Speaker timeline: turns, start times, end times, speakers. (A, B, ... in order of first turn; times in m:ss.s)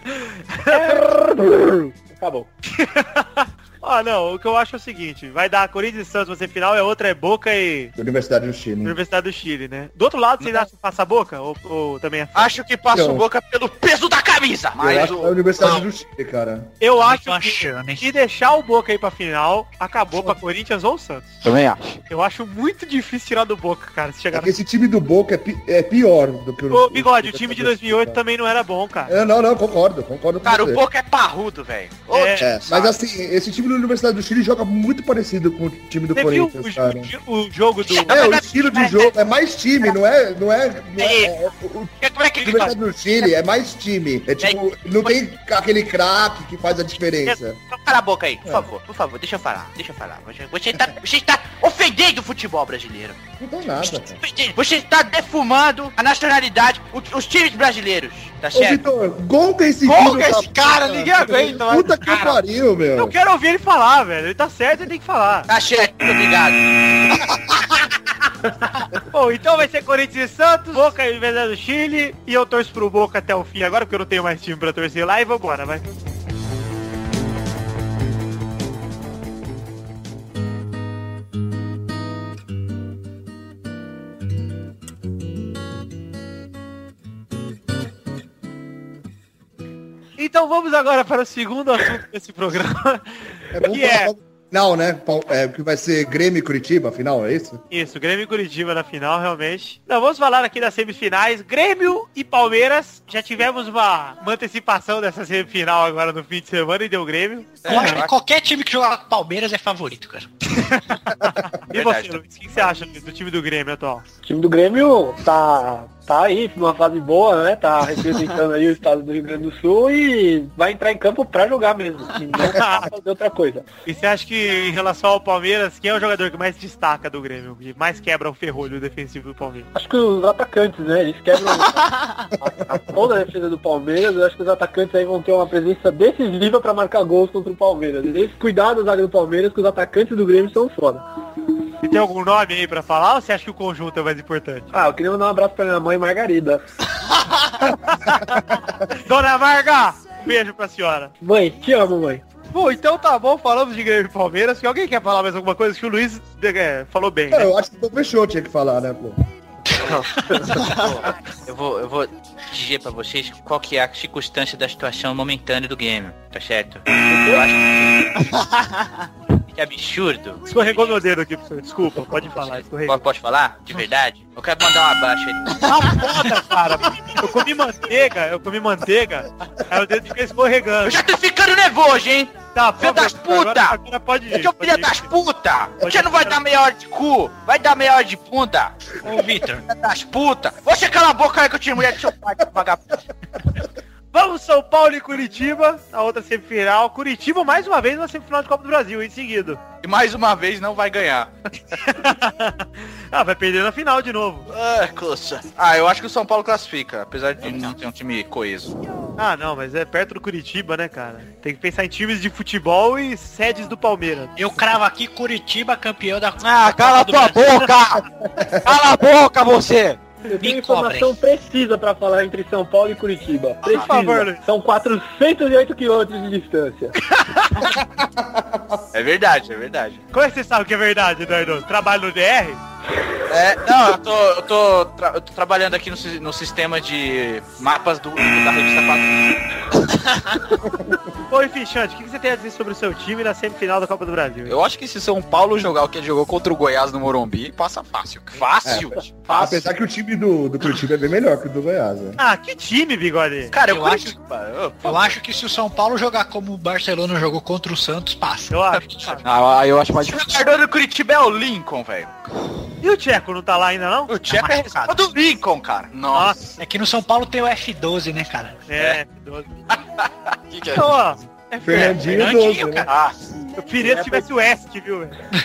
0:00.1-0:01.1 A
0:00.7-0:02.5 B
0:02.7-0:07.9 A
0:08.0-0:09.0 C
0:08.8-0:12.5 A
0:10.4-0:10.7 D
0:12.3-0:15.4 D
0:12.9-0:13.2 C
0:14.8-0:16.7 C
0:16.8-0:21.4 A
0:17.0-0:18.1 E
0:21.4-0:22.0 F
0:22.1-0:24.5 A
0:24.3-0:28.2 C
0:26.7-0:29.1 A
0:29.1-0:30.8 C
0:30.4-0:32.9 D
0:32.1-0:32.4 A
0:32.4-0:37.1 C
0:36.1-0:38.2 A
0:38.0-0:39.1 D
0:38.1-0:47.6 C
0:41.0-0:41.3 D
0:42.0-0:42.7 D
0:44.4-0:45.2 D
0:47.7-0:53.2 D
0:53.4-0:54.2 C
0:53.8-0:58.8 D
0:58.5-1:03.1 C
0:59.8-1:02.0 F
1:02.0-1:02.3 D
1:03.0-1:05.5 A
1:05.5-1:07.3 D
1:09.1-1:15.8 A
1:30.2-1:34.1 A
1:33.5-1:37.6 C
1:37.7-1:47.7 A
1:47.6-1:48.1 D
1:47.7-1:50.3 E
1:50.6-1:54.0 A
1:51.7-1:52.7 D
1:54.2-2:03.6 B
2:02.4-2:02.9 A
2:03.8-2:09.7 A
2:09.7-2:11.8 B
2:11.6-2:12.2 F
2:12.4-2:21.0 B
2:21.8-2:24.7 A
2:24.7-2:26.6 B
2:27.6-2:31.1 A
2:31.2-2:32.2 B
2:32.5-2:37.5 A
2:37.3-2:39.2 C
2:40.6-2:40.9 F
2:40.6-2:48.3 D
2:47.0-2:47.5 B
2:49.5-2:51.0 D
2:50.5-2:53.0 A
2:52.1-2:56.0 D
2:55.6-3:01.0 A
3:00.8-3:03.8 D
3:02.5-3:05.1 A
3:04.3-3:09.0 D
3:05.8-3:06.4 A
3:09.0-3:09.6 E
3:09.7-3:13.0 D
3:14.1-3:19.6 A
3:19.8-3:21.8 D
3:21.8-3:24.5 A
3:24.5-3:28.7 D
3:29.2-3:34.4 A
3:34.4-3:37.7 E
3:36.4-3:38.0 F
3:38.6-3:40.0 F
3:40.3-3:46.9 B
3:40.4-3:41.1 E
3:43.7-3:44.4 A
3:47.2-3:47.6 A
3:48.0-3:48.8 C
3:48.9-3:50.0 D
3:50.1-3:52.6 A
3:53.3-3:59.4 D
4:01.3-4:04.5 A
4:04.5-4:08.4 F
4:08.3-4:09.7 D
4:08.6-4:12.2 C
4:12.2-4:13.5 A
4:13.5-4:15.2 D
4:13.6-4:14.1 E
4:14.8-4:19.1 E
4:18.5-4:19.2 A
4:19.2-4:20.2 F
4:20.0-4:22.1 D
4:22.8-4:24.2 A
4:24.1-4:26.3 D
4:24.3-4:25.0 E
4:25.9-4:26.3 F
4:26.6-4:28.6 E
4:28.7-4:29.5 A
4:29.7-4:30.3 D
4:30.5-4:31.0 F
4:30.7-4:32.9 A
4:31.6-4:32.9 C
4:33.6-4:35.2 A
4:33.8-4:34.3 B